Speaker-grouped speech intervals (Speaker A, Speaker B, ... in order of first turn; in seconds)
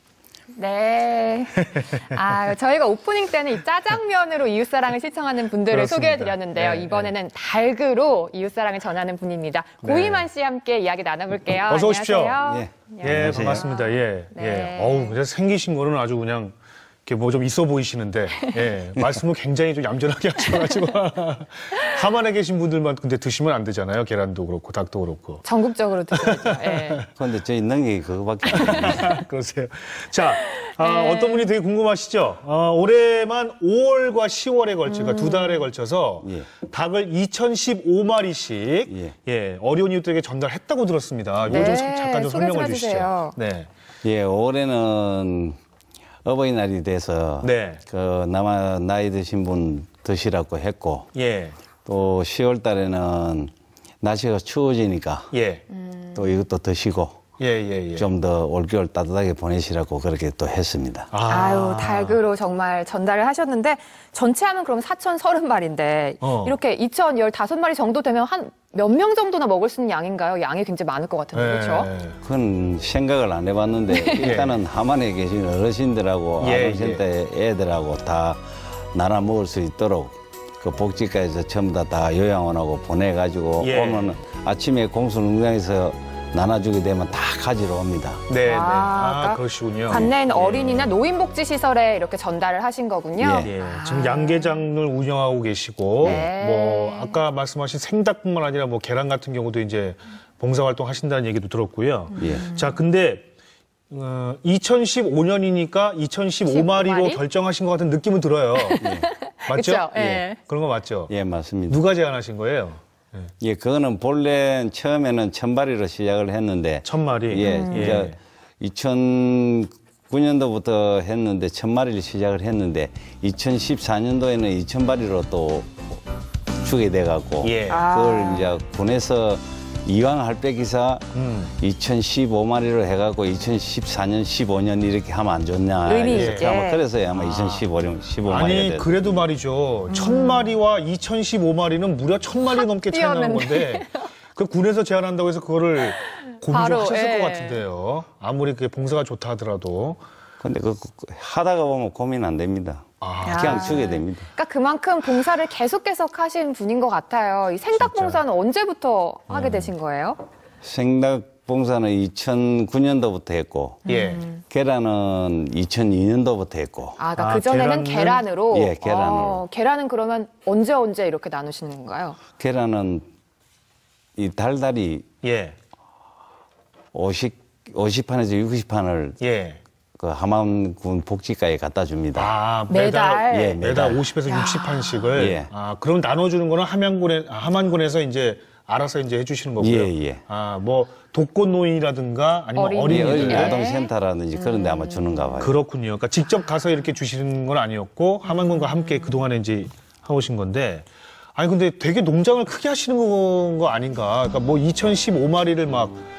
Speaker A: 0.6-15.2, 25.4-27.0, 28.5-28.9, 30.6-31.5, 34.9-35.7, 41.5-43.4, 55.7-56.3, 61.3-71.9, 73.9-74.4, 88.4-94.6, 96.0-97.2, 102.2-102.8, 106.5-107.2, 108.6-110.4, 117.4-118.1, 127.7-128.5, 135.8-136.8, 139.9-140.6, 142.4-144.1, 146.2-147.6, 153.2-160.2, 163.8-164.4, 167.0-172.2, 182.7-183.6, 184.2-185.2, 192.5-195.3, 198.2-199.2
Speaker B: 5.7-7.1, 9.8-10.3, 11.7-12.4, 13.0-16.6, 17.1-25.4, 26.1-27.1, 28.5-43.7, 47.4-47.8, 51.1-51.5, 55.3-55.6, 57.4-58.1, 61.1-62.2, 66.2-66.6, 71.3-72.2, 74.2-74.6, 76.4-77.0, 83.6-84.2, 88.3-90.9, 93.4-103.3, 103.9-108.8, 109.5-111.1, 111.7-113.3, 116.8-118.2, 127.4-127.9, 131.1-131.5, 136.1-136.5, 137.1-137.7, 138.2-150.0, 153.0-153.8, 157.8-158.2, 159.3-159.7, 163.8-164.2, 167.2-168.3, 175.2-175.5, 179.2-179.6, 182.1-193.6, 195.4-206.0
Speaker C: 12.4-13.6, 27.2-29.1, 36.2-36.5, 38.9-39.1, 44.0-45.6, 46.2-51.1, 51.9-53.5, 54.0-55.3, 56.1-57.2, 58.0-61.1, 72.2-88.2, 93.2-93.5, 96.0-96.3, 102.2-102.5, 108.8-109.1, 110.0-110.2, 111.1-111.8, 113.4-126.0, 126.6-139.0, 150.4-154.3, 160.6-163.8, 164.5-167.0, 168.5-169.4, 172.4-173.0, 174.2-175.1, 176.9-179.2, 180.0-182.3, 183.3-184.1, 185.1-185.5, 189.6-190.2, 192.9-195.6